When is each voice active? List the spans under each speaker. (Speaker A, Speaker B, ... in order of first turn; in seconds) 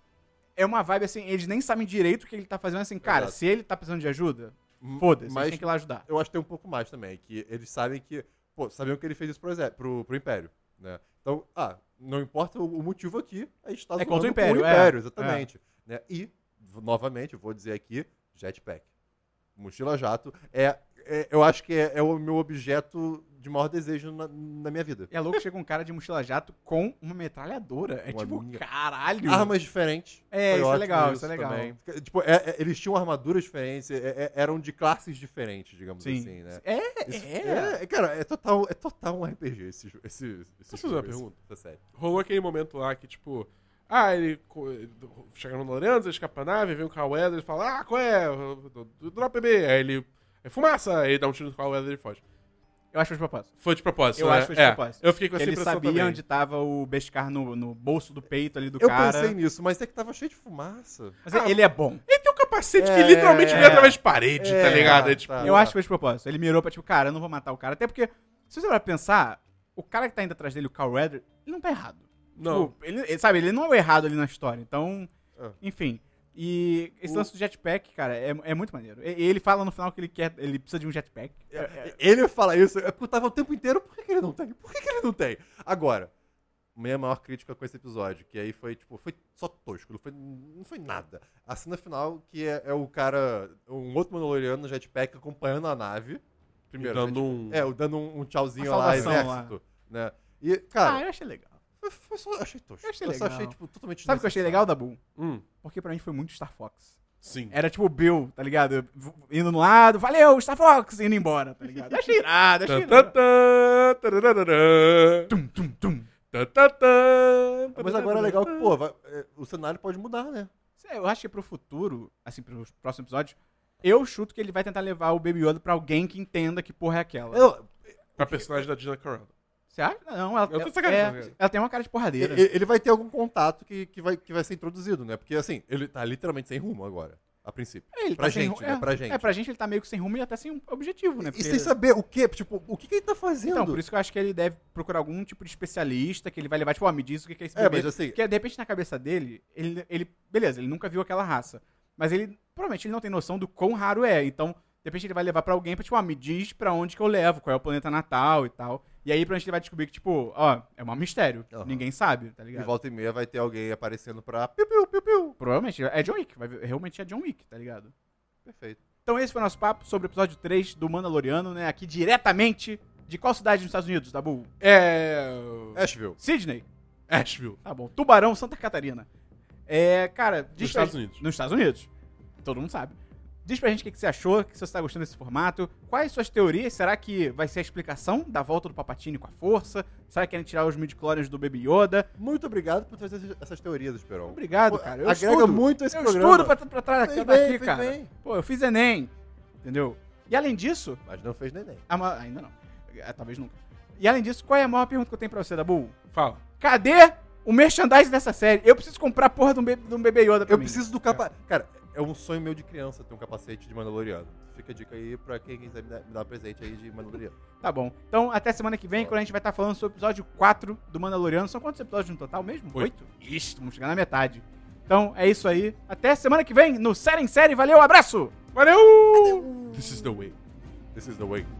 Speaker A: 0.6-6.0, 14.0-15.4, 25.1-29.5, 30.3-31.7, 36.0-37.8, 52.9-53.5, 54.1-59.3, 61.2-62.0, 63.5-64.0, 64.8-81.9, 98.6-99.5, 100.8-101.6, 102.8-105.0, 105.6-106.9, 107.5-113.1, 115.3-116.1, 120.8-127.5, 129.7-132.4, 137.9-141.7, 143.5-162.7, 165.4-167.9, 169.1-174.5, 176.2-176.7, 177.6-179.1, 179.7-181.9, 182.4-192.1, 194.2-199.1, 199.6-201.0, 201.9-205.9, 206.6-210.8, 217.6-228.3
Speaker B: 3.0-3.4, 4.8-18.9, 19.6-25.1, 28.1-28.6, 29.2-41.8, 58.8-61.2, 62.8-65.7, 81.5-86.1, 86.8-96.2, 96.8-101.0, 101.8-104.7, 117.7-120.5, 127.3-128.7, 132.2-139.3, 141.2-143.8, 147.5-148.2, 161.5-161.8, 162.5-165.4, 168.4-168.8, 175.7-176.2, 192.2-198.1, 201.1-201.8, 210.5-217.3, 229.1-230.0, 230.9-231.5
Speaker C: 40.7-41.4, 41.9-52.2, 53.6-56.2, 61.3-65.5, 72.3-72.7, 96.7-97.7, 98.9-99.3, 105.2-105.4, 107.2-107.5, 112.7-115.3, 116.3-118.8, 128.2-129.3, 130.5-131.3, 174.6-175.9, 177.1-177.6, 180.6-181.2, 206.1-206.4, 228.5-230.3